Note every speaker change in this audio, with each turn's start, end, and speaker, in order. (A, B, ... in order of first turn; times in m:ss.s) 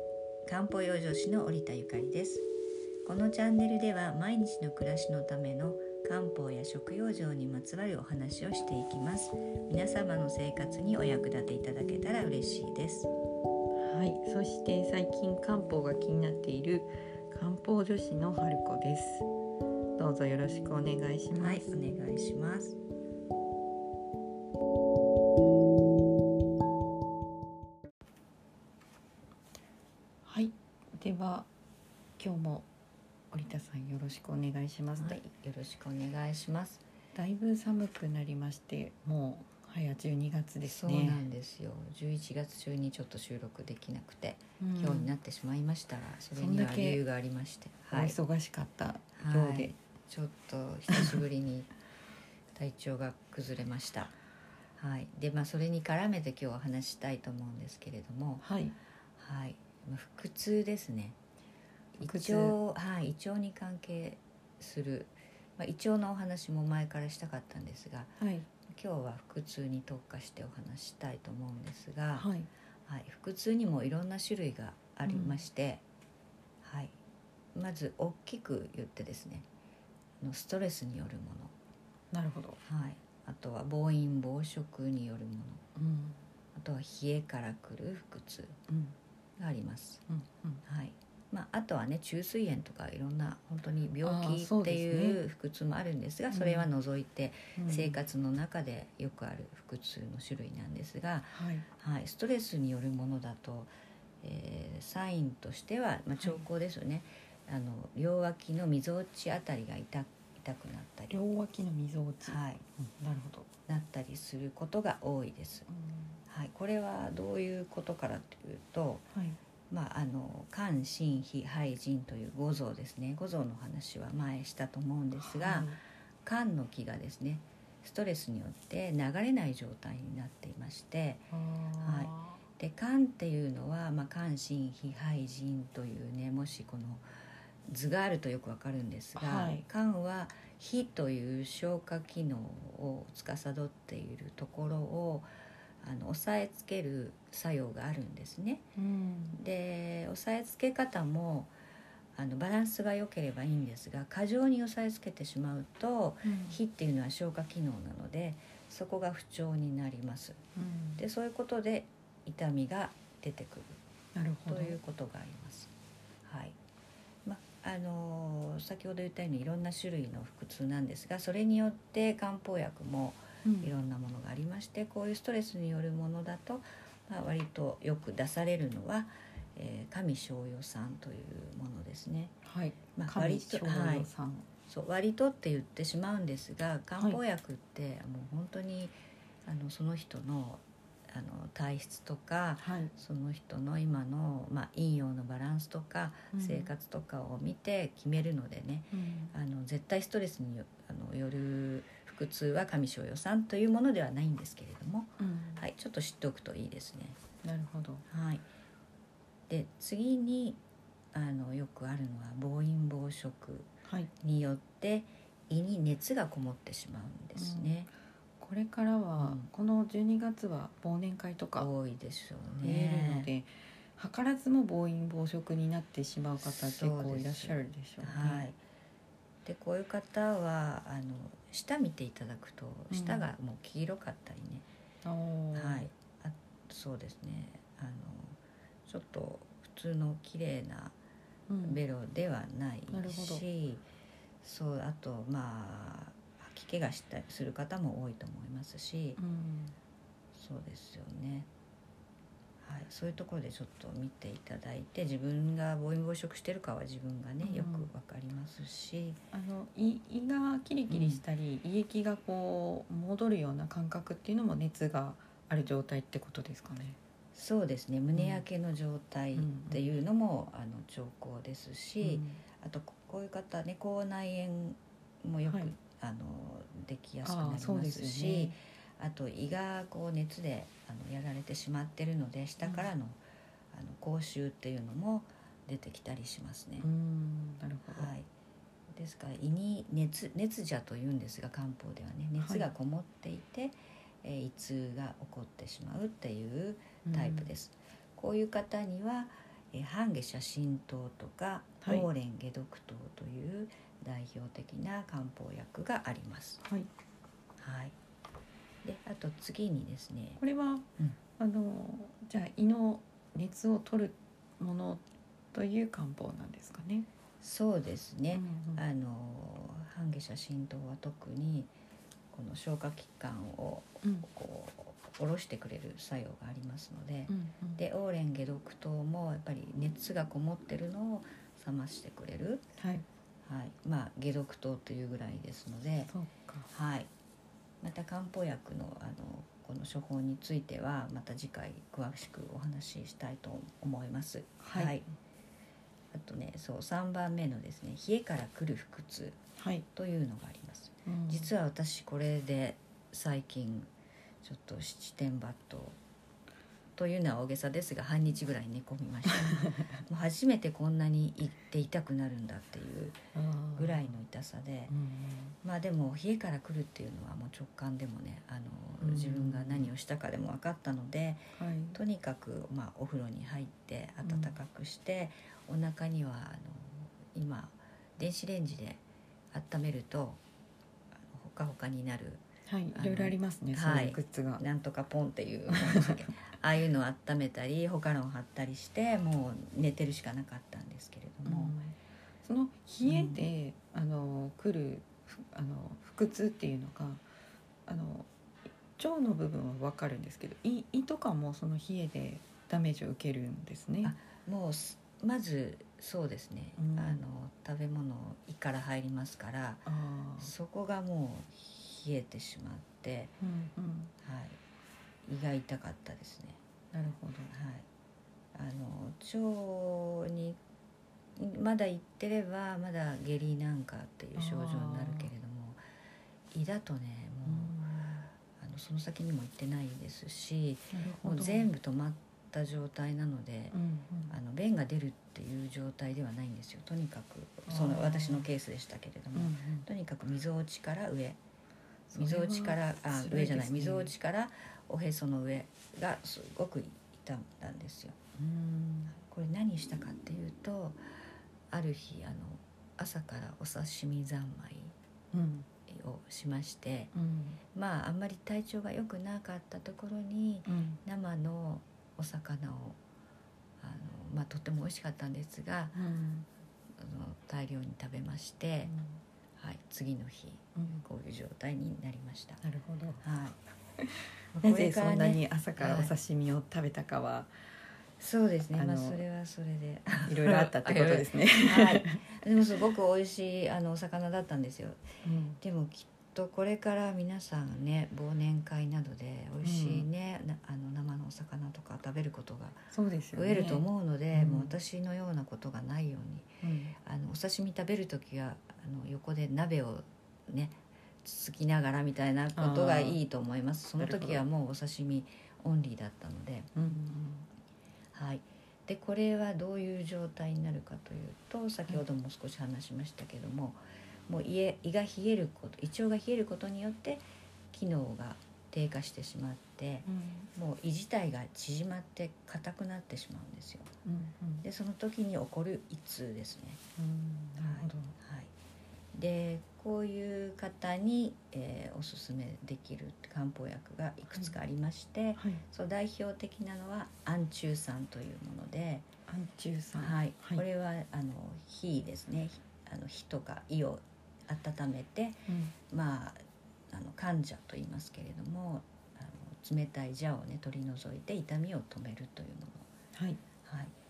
0:00.4-0:02.4 A
0:03.0-0:13.1 A
0:13.8-0:19.3 B
0:20.0-0:21.7 B
0:21.3-0:22.8 A
0:30.2-0:31.5 B
0:32.2-0:32.7 B
0:33.3-0:35.2 B
0:35.0-0:36.8 A
0:37.1-0:41.2 B
0:40.6-0:48.2 A
0:44.6-0:45.1 B
0:46.3-0:47.0 B
0:47.9-0:49.7 B
0:49.2-0:51.7 A
0:50.9-0:51.1 B
0:52.5-0:54.2 A
0:54.8-0:58.4 A
0:58.4-0:58.8 B
0:59.2-1:01.2 A
1:02.0-1:08.1 A
1:02.0-1:02.6 B
1:08.2-1:08.5 B
1:08.7-1:12.3 A
1:12.2-1:12.5 B
1:12.9-1:15.8 A
1:15.0-1:15.4 B
1:16.6-1:17.0 A
1:17.5-1:19.4 A
1:20.2-1:21.5 A
1:22.1-1:22.6 B
1:22.6-1:25.6 A
1:25.8-1:26.2 B
1:26.5-1:28.6 A
1:28.7-1:28.9 B
1:29.4-1:30.0 A
1:30.1-1:30.6 B
1:30.6-1:43.7 A
1:34.0-1:35.2 B
1:36.3-1:36.7 B
1:37.6-1:37.9 B
1:41.3-1:41.7 B
1:44.2-1:51.1 A
1:51.1-1:53.5 B
1:52.2-1:52.6 A
1:53.7-1:55.7 A
1:55.7-1:56.1 B
1:56.3-1:59.1 A
1:59.1-1:59.4 B
1:59.7-2:17.0 A
2:05.2-2:05.8 B
2:11.3-2:12.4 B
2:17.7-2:25.2 A
2:19.2-2:19.6 B
2:25.8-2:28.6 A
2:28.8-2:29.4 B
2:29.3-2:31.5 A
2:32.2-2:40.4 A
2:36.2-2:36.6 B
2:40.6-2:41.0 B
2:41.0-2:43.8 A
2:44.1-2:44.8 B
2:44.5-2:45.7 A
2:46.2-2:46.6 A
2:47.2-3:02.3 A
2:53.4-2:53.7 B
3:02.4-3:04.5 B
3:03.0-3:04.1 A
3:04.7-3:08.9 A
3:09.4-3:27.2 A
3:12.6-3:12.9 B
3:16.3-3:16.7 B
3:18.9-3:19.3 B
3:25.2-3:25.6 B
3:27.4-3:28.0 B
3:28.1-3:28.4 A
3:29.5-3:30.6 A
3:31.1-3:33.7 A
3:33.8-3:34.1 B
3:34.2-3:37.9 A
3:37.3-3:37.8 B
3:38.4-3:41.7 B
3:39.2-3:39.5 A
3:41.6-3:43.3 A
3:42.6-3:48.4 B
3:46.4-3:48.6 A
3:49.4-3:54.6 A
3:52.9-3:53.3 B
3:55.0-3:55.9 B
3:55.5-4:00.9 A
4:01.5-4:01.8 B
4:01.6-4:03.8 A
4:02.9-4:03.4 B
4:04.4-4:09.2 A
4:09.2-4:09.7 B
4:10.3-4:11.5 A
4:12.6-4:19.2 A
4:17.4-4:17.9 B
4:19.3-4:27.0 B
4:20.9-4:21.2 A
4:27.3-4:43.2 A
4:28.1-4:28.4 B
4:29.3-4:29.9 B
4:32.0-4:32.4 B
4:35.4-4:35.7 B
4:37.2-4:38.5 B
4:42.6-4:42.9 B
4:43.7-4:46.8 A
4:46.8-4:48.1 B
4:47.9-4:48.3 A
4:48.9-5:06.6 A
4:52.4-4:52.7 B
4:57.0-4:57.5 B
5:07.6-5:08.0 A
5:08.8-5:10.4 A
5:10.4-5:10.9 B
5:11.4-5:17.1 B
5:17.4-5:21.7 A
5:18.3-5:18.8 B
5:22.3-5:32.6 A
5:27.3-5:27.8 B
5:32.8-5:33.0 B
5:33.4-5:36.1 A
5:36.1-5:36.7 B
5:36.7-5:37.1 A
5:37.8-5:45.1 A
5:44.6-5:45.0 B
5:46.1-5:49.4 A
5:49.6-5:49.9 B
5:49.9-5:53.9 A
5:51.0-5:51.5 B
5:54.4-5:56.0 A
5:57.0-6:03.2 A
6:03.3-6:04.0 B
6:03.8-6:04.9 A
6:04.9-6:05.5 B
6:05.6-6:19.0 A
6:09.0-6:09.9 B
6:11.6-6:12.0 B
6:14.2-6:14.5 B
6:19.5-6:20.4 A
6:21.3-6:22.4 A
6:22.7-6:24.6 B
6:22.9-6:31.7 A
6:25.7-6:26.2 B
6:31.4-6:37.2 B
6:33.0-6:33.4 A
6:37.9-6:38.3 B
6:39.0-6:44.1 B
6:44.0-6:49.9 A
6:46.8-6:47.2 B
6:49.8-6:50.5 B
6:50.4-6:53.3 A
6:53.4-6:54.1 B
6:54.2-6:54.6 A
6:55.2-6:56.6 A
6:56.9-6:57.5 B
6:57.5-6:57.8 A
6:58.5-7:00.6 A
7:01.4-7:05.8 A
7:04.4-7:05.3 B
7:06.5-7:07.7 A
7:07.4-7:08.2 B
7:08.6-7:13.8 A
7:10.9-7:11.7 B
7:13.7-7:14.4 B
7:14.3-7:21.4 A
7:17.7-7:18.5 B
7:19.3-7:19.8 B
7:22.1-7:24.1 B
7:22.1-7:28.2 A
7:28.4-7:29.2 B
7:29.1-7:31.0 A
7:31.7-7:34.9 A
7:35.3-7:35.7 B
7:35.9-7:37.1 A
7:37.1-7:37.6 B
7:37.7-7:43.0 A
7:40.6-7:41.0 B
7:43.8-7:46.0 A
7:45.9-7:46.5 B
7:47.0-7:48.9 A
7:48.9-7:49.2 B
7:49.6-7:52.6 A
7:50.8-7:51.0 B
7:52.6-7:53.2 B
7:53.2-7:53.6 A
7:54.0-7:57.5 B
7:54.5-7:56.1 A
7:58.2-8:05.0 A
7:58.7-7:59.2 B
8:00.2-8:02.2 B
8:05.2-8:05.6 B
8:05.6-8:12.8 A
8:09.6-8:10.1 B
8:12.9-8:14.8 B
8:13.3-8:16.5 A
8:16.6-8:17.0 B
8:17.0-8:26.7 A
8:22.5-8:23.2 B
8:24.0-8:24.4 B
8:26.7-8:27.5 B
8:28.1-8:43.9 A
8:40.0-8:40.5 B
8:44.0-8:44.6 B
8:44.6-8:46.8 A
8:47.0-8:48.1 B
8:47.6-8:48.5 A
8:49.1-8:59.0 A
8:55.4-8:55.6 B
8:59.3-9:00.6 B
9:00.0-9:06.4 A
9:05.5-9:05.7 B
9:06.9-9:12.9 A
9:13.1-9:13.4 B
9:13.6-9:13.9 A